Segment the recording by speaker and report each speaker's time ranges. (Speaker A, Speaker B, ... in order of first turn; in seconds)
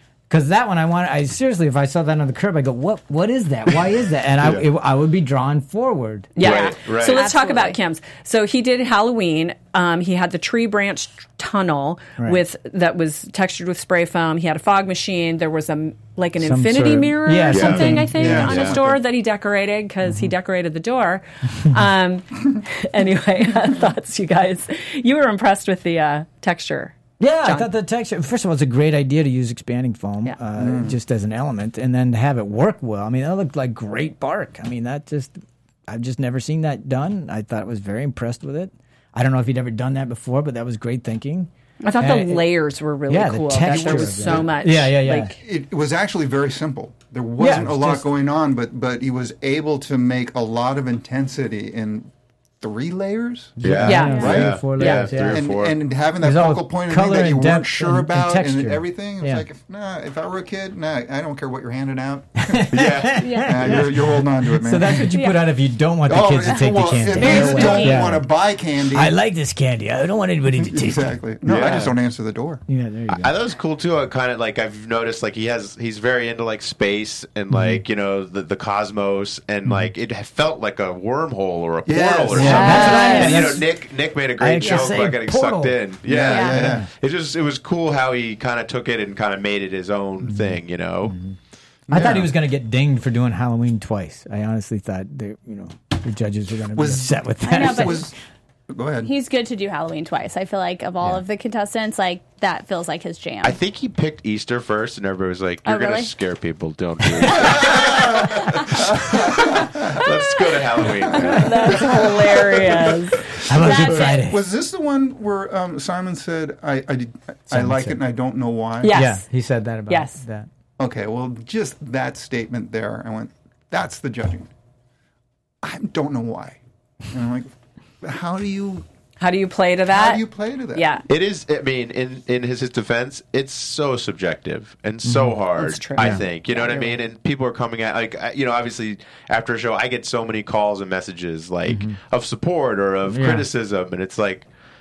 Speaker A: 0.3-6.3, 16.4-18.7, 20.0-20.3, 27.2-42.5, 43.1-45.3, 47.4-48.1, 53.6-55.5, 56.2-59.4, 62.4-68.3, 68.9-71.2, 72.7-73.3, 77.5-77.8, 79.6-79.9, 82.3-83.7, 84.4-85.8, 86.5-86.9, 90.2-91.3, 91.9-98.1, 107.2-107.5, 113.5-114.4, 117.5-118.0, 118.9-120.5, 135.0-135.4, 136.0-136.2, 141.7-142.0, 143.1-143.5
Speaker B: 6.3-27.7, 41.8-45.4, 53.9-55.1, 111.3-113.2, 118.8-119.2, 119.9-120.2, 129.2-131.0, 135.6-137.0
Speaker C: 6.4-7.2, 17.5-18.8, 53.6-55.8, 62.7-63.2, 71.4-72.0, 73.1-91.2, 103.4-111.8, 131.1-144.5
Speaker D: 7.0-7.8, 63.2-63.8, 65.0-65.4, 66.5-68.2, 82.6-83.2, 84.6-84.9, 86.3-86.6, 97.4-98.1, 99.0-103.6, 105.7-106.1, 108.2-108.7, 111.1-112.0, 113.5-114.2
Speaker E: 18.1-19.0, 30.6-30.9, 43.7-44.5, 45.3-54.6, 55.3-62.7, 63.4-65.1, 66.0-69.2, 70.5-72.6, 81.8-83.6, 86.0-86.8, 91.9-92.3, 96.7-98.1, 98.7-99.1, 107.4-110.0, 110.8-119.0, 120.8-124.5, 125.6-127.5, 128.0-128.8, 129.9-130.9